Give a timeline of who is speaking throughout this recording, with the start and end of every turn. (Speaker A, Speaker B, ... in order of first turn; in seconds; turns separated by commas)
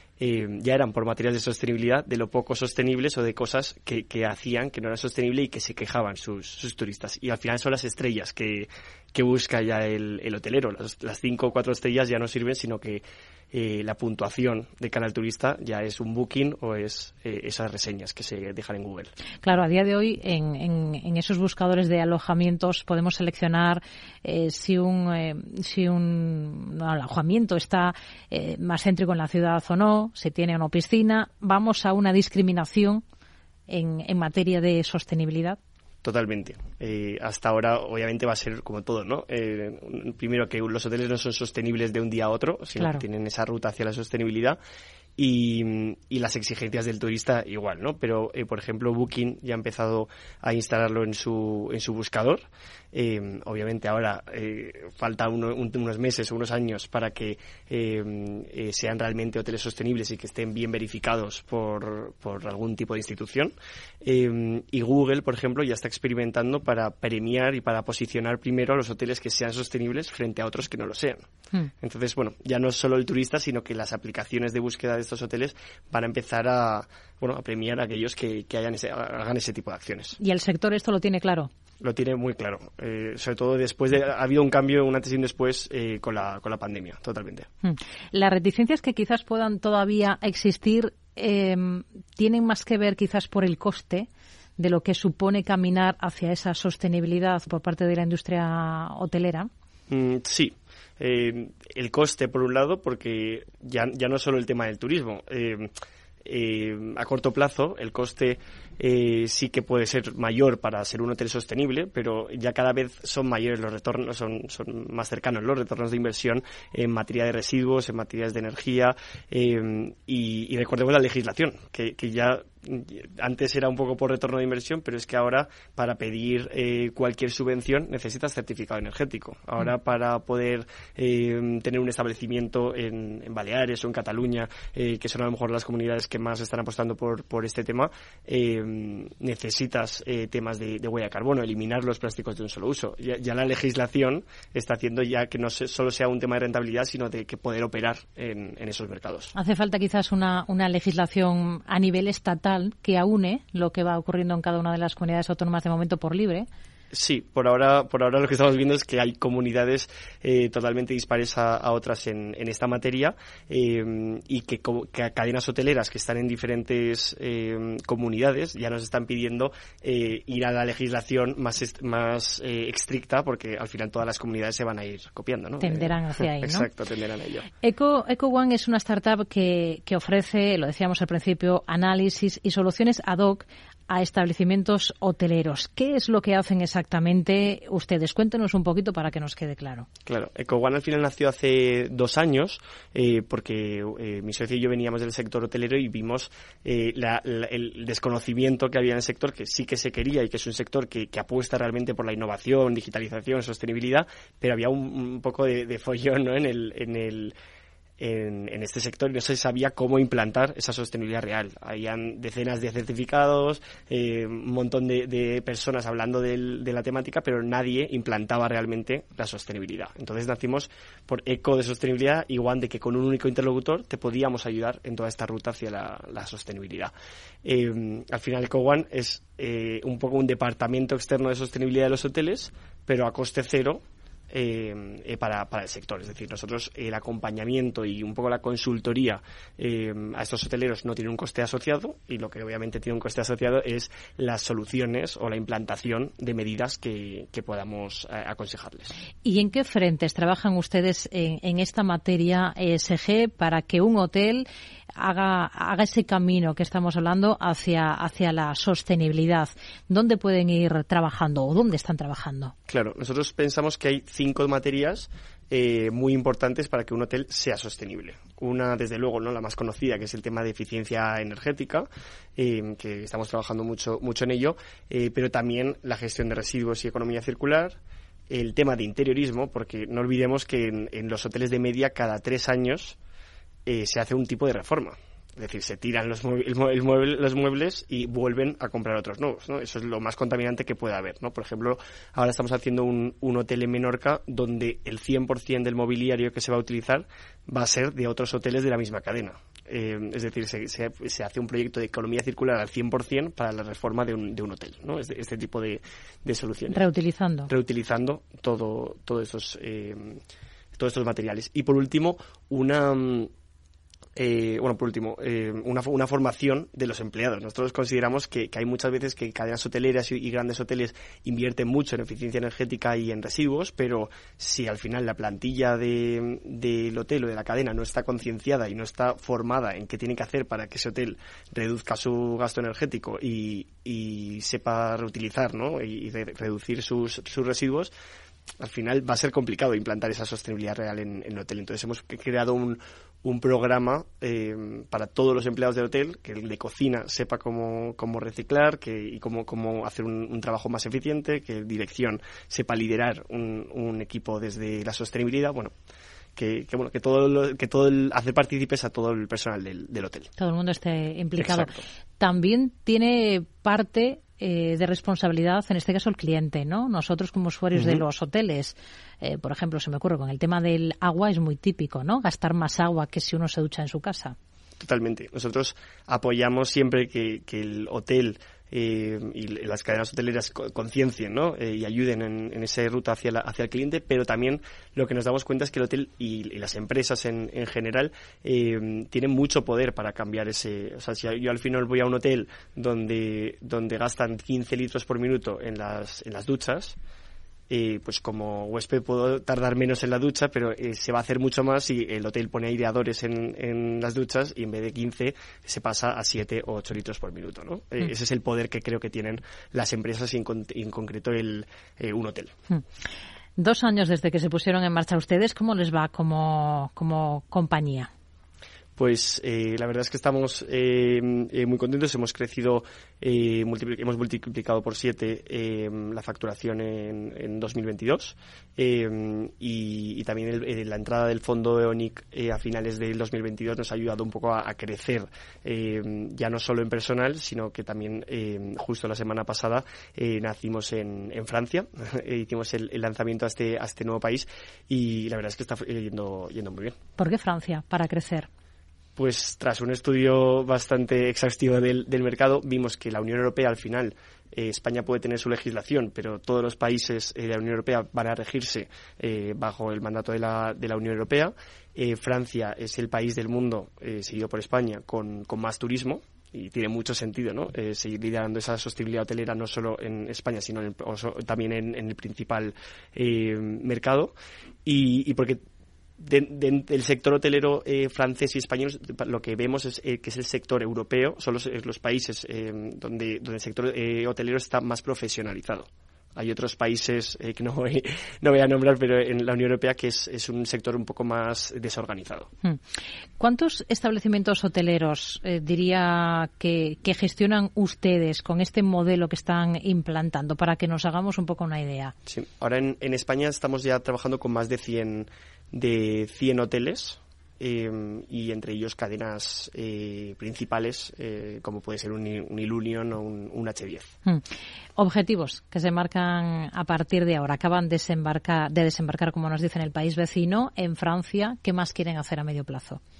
Speaker A: 0.2-19.1, Speaker B: 19.4-33.0, Speaker B: 33.7-35.6, Speaker A: 36.0-44.6, Speaker B: 42.8-43.0, Speaker A: 45.2-71.2, Speaker A: 71.8-80.2, Speaker B: 80.2-81.5, Speaker A: 81.8-87.5, Speaker B: 87.6-99.5, Speaker A: 99.9-105.7, Speaker A: 106.2-149.3, Speaker B: 149.3-156.5, Speaker A: 156.9-177.5, Speaker B: 175.6-176.7, Speaker B: 177.6-189.9, Speaker A: 190.1-207.3, Speaker A: 208.0-226.9, Speaker A: 227.4-248.9, Speaker B: 249.2-254.5, Speaker B: 255.0-262.5, Speaker A: 262.7-277.8, Speaker A: 278.3-283.0, Speaker A: 283.6-306.8, Speaker B: 306.7-307.5, Speaker A: 307.5-310.2, Speaker A: 310.8-313.3, Speaker A: 314.2-337.9, Speaker A: 338.6-355.7, Speaker A: 356.4-360.3, Speaker B: 360.4-374.3, Speaker A: 361.4-361.8, Speaker A: 367.7-368.0, Speaker A: 374.8-396.9, Speaker A: 397.7-412.5, Speaker B: 413.6-418.1, Speaker A: 418.9-446.9, Speaker B: 447.2-448.5, Speaker A: 449.1-474.3, Speaker A: 474.8-475.6, Speaker A: 476.2-492.5, Speaker B: 493.4-502.1, Speaker A: 502.3-514.1, Speaker B: 515.0-523.0